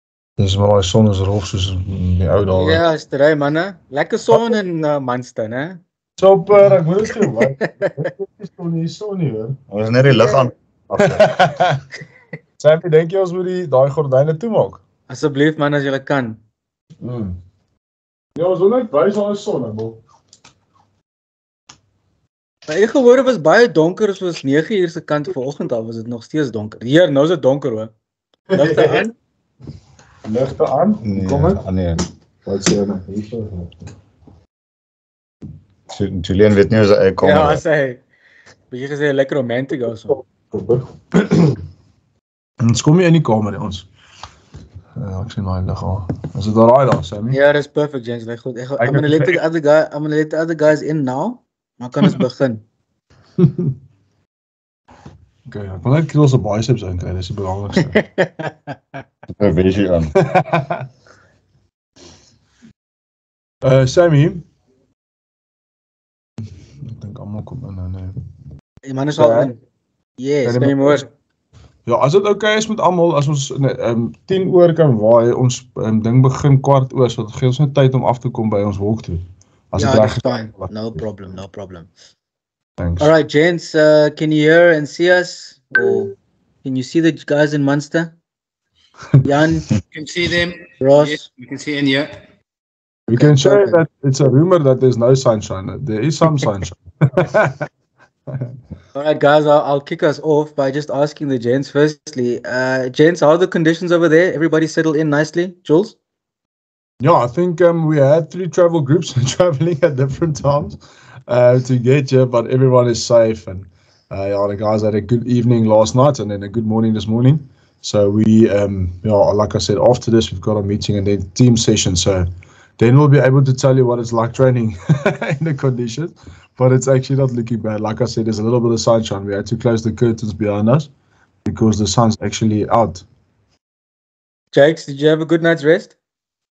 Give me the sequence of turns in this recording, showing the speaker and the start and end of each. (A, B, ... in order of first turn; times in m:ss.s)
0:00.4-0:02.8 A
0:02.5-0:05.8 B
0:06.2-0:09.6 A
0:09.7-0:11.2 C
0:11.0-0:11.8 A
0:12.6-0:14.8 A
0:15.1-0:16.4 B
0:17.0-0:17.4 A
0:18.4-0:20.0 A
0:22.7-0:27.9 B
0:28.5-0:29.1 A
0:28.5-0:29.1 B
0:30.2-0:31.6 A
0:31.0-0:32.0 C
0:32.4-0:33.7 A
0:35.9-0:37.6 C
0:37.2-0:38.0 B
0:38.7-0:40.2 B
0:40.2-0:41.6 A
0:42.6-0:43.8 A
0:45.0-0:47.4 A
0:47.3-0:52.6 B
0:48.8-0:49.4 A
0:53.4-0:53.7 A
0:55.5-0:58.0 A
0:58.0-0:58.7 B
0:59.4-1:00.1 C
1:00.1-1:00.8 A
1:03.6-1:04.4 A
1:06.8-1:08.1 A
1:08.8-1:09.6 B
1:09.2-1:09.5 A
1:10.2-1:11.1 B
1:10.4-1:11.0 A
1:11.8-1:21.0 A
1:19.8-1:21.9 B
1:22.8-1:23.1 A
1:23.0-1:26.1 B
1:26.6-1:28.1 B
1:29.2-1:29.7 B
1:29.9-1:32.2 D
1:30.8-1:31.2 B
1:33.1-1:37.6 A
1:33.2-1:33.8 B
1:38.9-1:46.0 B
1:47.0-2:02.3 A
2:02.8-2:10.9 A
2:11.4-2:13.0 A
2:14.5-2:15.9 B